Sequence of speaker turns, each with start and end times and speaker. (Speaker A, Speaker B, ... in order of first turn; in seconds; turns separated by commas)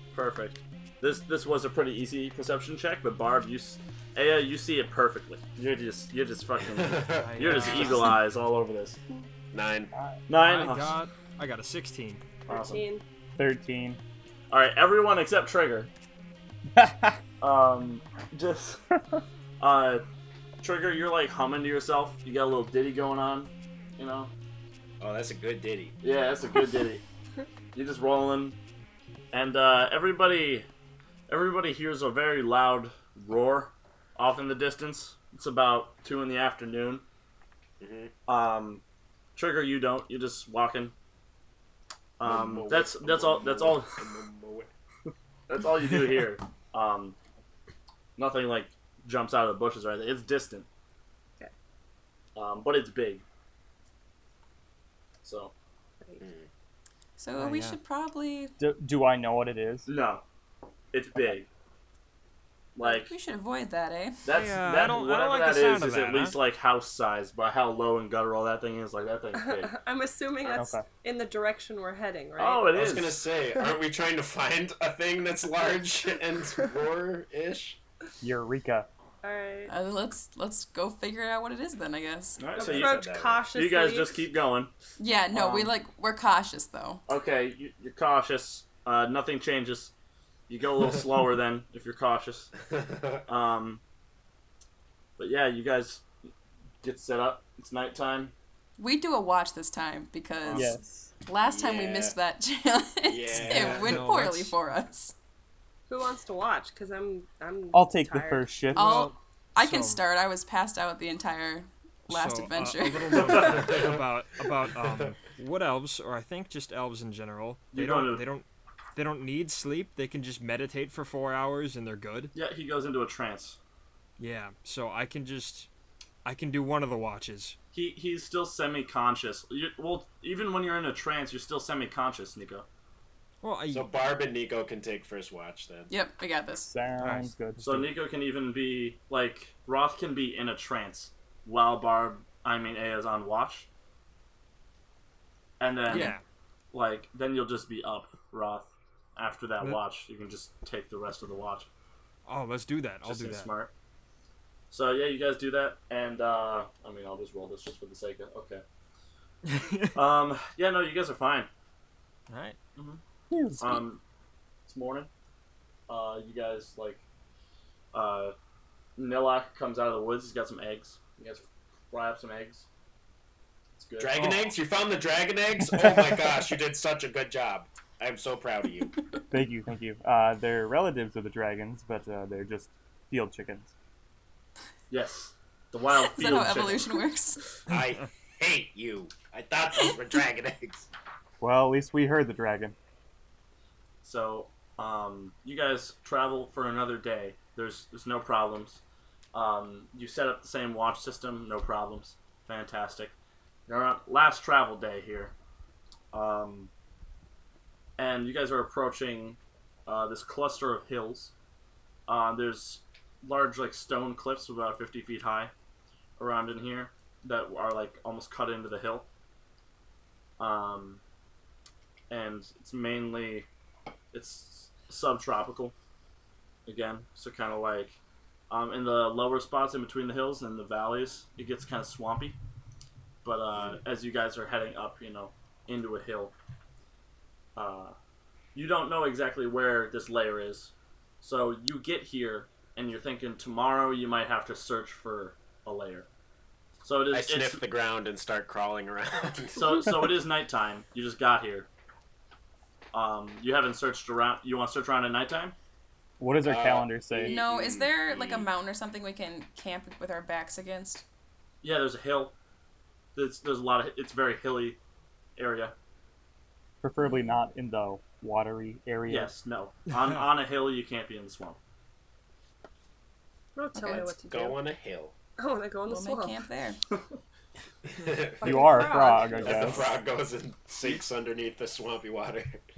Speaker A: 0.1-9.0, Speaker B: 6.7-8.1, Speaker C: 7.2-8.2, Speaker B: 9.5-9.9, Speaker A: 10.3-11.0, Speaker C: 10.3-12.3, Speaker A: 12.5-12.8, Speaker D: 12.5-13.0, Speaker E: 13.4-14.0, Speaker A: 14.5-15.9, Speaker E: 16.8-17.2, Speaker A: 17.4-18.8, Speaker A: 19.6-20.0, Speaker A: 20.6-24.3, Speaker B: 25.0-25.9, Speaker A: 26.0-27.0, Speaker A: 27.7-28.6, Speaker A: 29.3-30.6, Speaker A: 31.3-37.0, Speaker B: 37.8-38.1, Speaker A: 38.3-38.8, Speaker A: 39.4-40.9, Speaker A: 42.2-44.0, Speaker B: 42.2-44.7, Speaker A: 45.5-47.1, Speaker A: 48.2-50.7, Speaker A: 52.4-53.2, Speaker A: 55.2-55.5, Speaker B: 56.2-56.5, Speaker F: 57.2-58.5, Speaker C: 57.3-57.8, Speaker E: 58.6-59.9, Speaker A: 59.9-60.2, Speaker A: 60.9-61.5, Speaker A: 62.7-63.1, Speaker F: 62.8-64.2, Speaker A: 64.2-69.7, Speaker C: 64.3-66.4, Speaker D: 69.3-72.7, Speaker E: 70.5-70.8, Speaker A: 72.4-73.2, Speaker B: 72.7-77.8, Speaker E: 78.2-78.9, Speaker D: 79.2-79.7, Speaker F: 79.7-82.4, Speaker A: 82.4-84.7, Speaker B: 82.6-83.4, Speaker D: 82.6-84.2, Speaker F: 85.0-87.0, Speaker A: 85.3-85.7, Speaker A: 87.1-89.9, Speaker A: 90.5-92.5, Speaker B: 92.7-93.2, Speaker A: 93.3-93.8, Speaker A: 95.2-96.0, Speaker A: 96.8-98.3, Speaker F: 98.8-105.1, Speaker A: 100.4-100.8, Speaker E: 100.5-101.1, Speaker B: 101.4-102.2, Speaker B: 103.0-104.0, Speaker C: 103.3-104.5, Speaker D: 105.9-108.5, Speaker E: 107.7-109.1, Speaker F: 108.7-113.6, Speaker C: 109.6-110.0, Speaker C: 112.1-122.3, Speaker A: 113.2-113.5, Speaker B: 113.5-114.0, Speaker A: 117.7-118.2, Speaker A: 122.3-123.6, Speaker C: 124.2-125.7, Speaker C: 126.2-127.6, Speaker A: 127.7-132.7, Speaker C: 133.4-133.9, Speaker B: 133.7-135.9, Speaker F: 135.9-136.7, Speaker E: 136.6-137.9, Speaker C: 137.0-137.3, Speaker A: 137.6-143.7, Speaker A: 145.6-146.1, Speaker C: 145.9-146.2, Speaker A: 146.7-151.7, Speaker C: 152.3-153.5, Speaker A: 153.0-153.7, Speaker A: 154.7-158.6, Speaker C: 159.5-159.9, Speaker A: 159.9-161.5, Speaker C: 162.3-162.6, Speaker E: 163.3-163.8, Speaker A: 163.6-164.0, Speaker A: 164.7-165.1, Speaker A: 165.9-167.0, Speaker A: 167.9-168.3, Speaker A: 169.0-172.7, Speaker A: 173.8-174.4, Speaker B: 174.0-178.9, Speaker E: 179.3-183.7, Speaker A: 184.9-186.9, Speaker F: 185.9-187.5, Speaker B: 187.7-190.9, Speaker E: 191.4-192.7, Speaker A: 194.0-198.8, Speaker A: 199.3-203.1, Speaker A: 203.7-205.3, Speaker A: 206.1-206.7, Speaker A: 208.0-211.3, Speaker A: 212.1-215.5, Speaker A: 216.2-219.1, Speaker A: 220.4-221.0, Speaker A: 222.1-223.5, Speaker A: 224.1-225.7, Speaker A: 226.7-228.0, Speaker A: 228.5-232.4, Speaker A: 233.2-236.3, Speaker A: 237.6-237.9, Speaker A: 238.5-246.1, Speaker A: 246.8-247.6, Speaker B: 247.1-249.9, Speaker A: 249.5-251.7, Speaker A: 252.9-255.5, Speaker E: 256.2-257.3, Speaker B: 256.4-258.5, Speaker F: 257.2-261.0, Speaker A: 261.6-262.3, Speaker A: 263.1-264.8, Speaker A: 265.4-265.7, Speaker E: 266.8-269.3, Speaker A: 269.1-271.6, Speaker D: 273.6-274.6, Speaker F: 273.8-274.1, Speaker B: 274.2-275.1, Speaker D: 275.4-276.4, Speaker F: 275.9-276.8, Speaker B: 277.8-282.6, Speaker D: 278.4-279.6, Speaker E: 278.4-279.9, Speaker A: 279.6-279.9